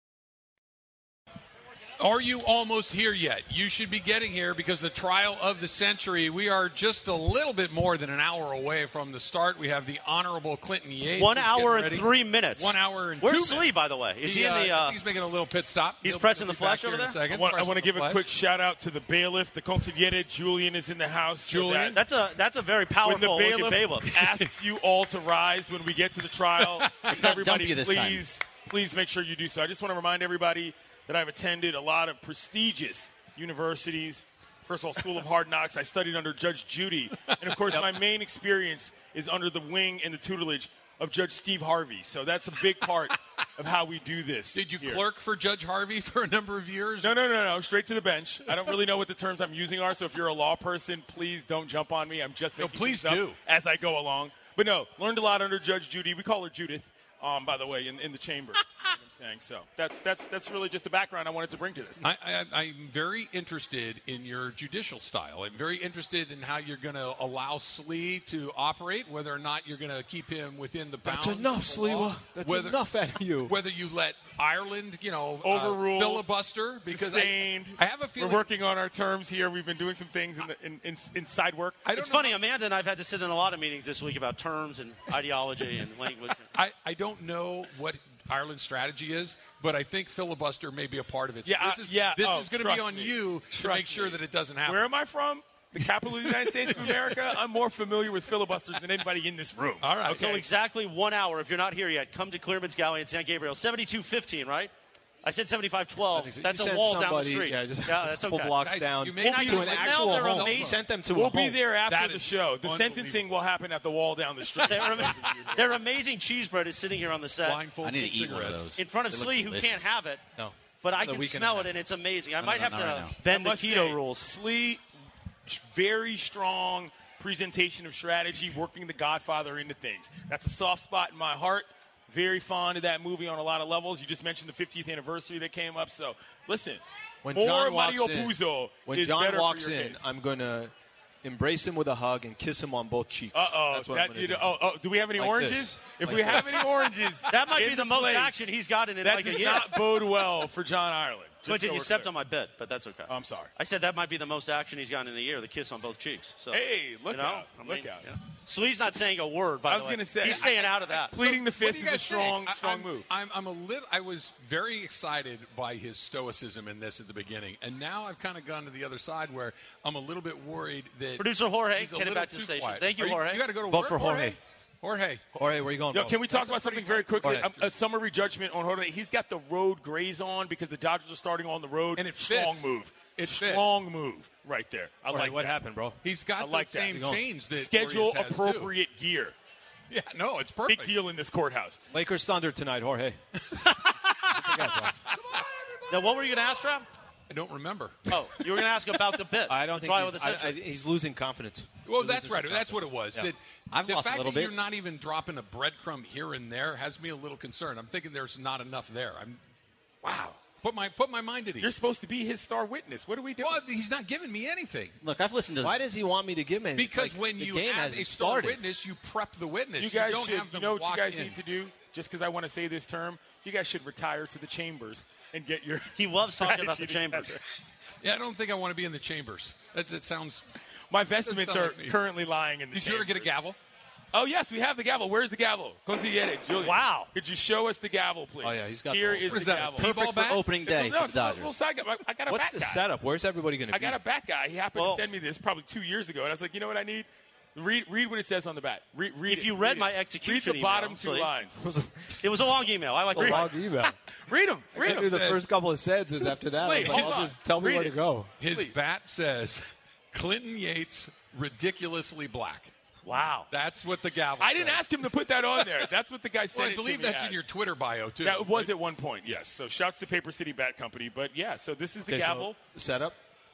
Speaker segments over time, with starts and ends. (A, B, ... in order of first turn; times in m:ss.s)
0:02.0-0:13.7 A
0:11.2-0:15.0 B
0:14.2-0:18.2 A
0:16.0-0:17.2 B
0:17.2-0:22.0 C
0:21.5-0:22.0 A
0:21.9-0:24.1 B
0:23.0-0:45.0 C
0:24.1-0:24.5 A
0:26.6-0:27.2 A
0:27.1-0:28.2 D
0:44.5-0:47.2 A
0:47.0-1:02.0 C
0:48.5-0:48.7 A
0:52.6-0:53.4 A
1:02.0-1:12.8 A
1:11.0-1:13.5 E
1:13.4-1:18.5 A
1:15.4-1:16.3 C
1:16.8-1:21.8 C
1:21.8-1:22.4 A
1:21.9-1:26.5 B
1:26.5-1:34.9 A
1:31.4-1:40.2 C
1:35.7-1:37.4 A
1:39.8-1:40.4 A
1:40.1-1:44.7 B
1:45.2-1:48.6 B
1:46.1-1:51.6 E
1:48.6-1:50.8 A
1:49.2-1:50.8 B
1:51.1-1:55.8 C
1:51.9-1:53.3 A
1:54.6-1:57.7 B
1:55.0-1:55.4 A
1:57.4-1:58.7 A
1:57.8-1:59.8 D
1:58.8-2:00.2 B
2:00.4-2:01.7 E
2:00.8-2:04.0 B
2:02.4-2:03.2 D
2:03.2-2:04.8 C
2:05.4-2:20.0 C
2:17.2-2:24.6 E
2:23.3-2:32.1 C
2:25.1-2:26.9 E
2:27.3-2:29.9 B
2:31.4-2:41.2 B
2:33.1-2:33.5 C
2:36.5-2:38.1 C
2:39.7-2:43.1 C
2:41.2-2:55.2 A
2:51.2-2:53.4 B
2:53.6-2:54.4 D
2:55.4-2:56.2 E
2:55.9-3:05.6 C
2:55.9-2:57.8 A
3:01.9-3:03.8 A
3:05.1-3:06.0 E
3:06.0-3:08.7 A
3:06.4-3:09.3 C
3:06.9-3:07.2 E
3:09.9-3:11.0 A
3:10.7-3:11.8 C
3:11.9-3:13.2 E
3:13.5-3:13.9 A
3:14.3-3:15.0 E
3:15.0-3:15.4 A
3:15.9-3:16.9 B
3:17.3-3:18.2 A
3:18.1-3:20.6 B
3:19.5-3:23.3 E
3:21.8-3:29.4 A
3:23.7-3:24.5 D
3:30.0-3:31.8 A
3:31.6-3:33.6 C
3:33.4-3:35.0 A
3:35.0-3:35.8 D
3:35.6-3:38.6 E
3:36.7-3:41.4 A
3:39.8-3:47.4 C
3:46.0-3:47.4 B
3:48.0-3:50.4 A
3:50.9-3:53.3 C
3:51.2-3:52.0 A
3:52.7-3:53.6 A
3:54.1-4:00.0 C
3:56.6-3:57.1 B
3:58.4-3:59.6 E
3:59.2-4:00.5 A
3:59.8-4:01.5 D
4:00.6-4:02.8 C
4:02.3-4:04.0 E
4:03.7-4:11.6 C
4:04.7-4:05.0 B
4:09.2-4:11.3 B
4:11.6-4:12.0 E
4:12.2-4:13.5 B
4:13.1-4:13.9 E
4:13.1-4:15.1 C
4:14.8-4:15.4 A
4:14.8-4:18.3 E
4:16.3-4:18.7 C
4:16.8-4:17.2 A
4:18.4-4:22.7 A
4:23.0-4:23.5 B
4:23.5-4:25.9 A
4:24.4-4:27.4 C
4:26.5-4:28.7 A
4:28.2-4:32.6 C
4:32.1-4:33.2 E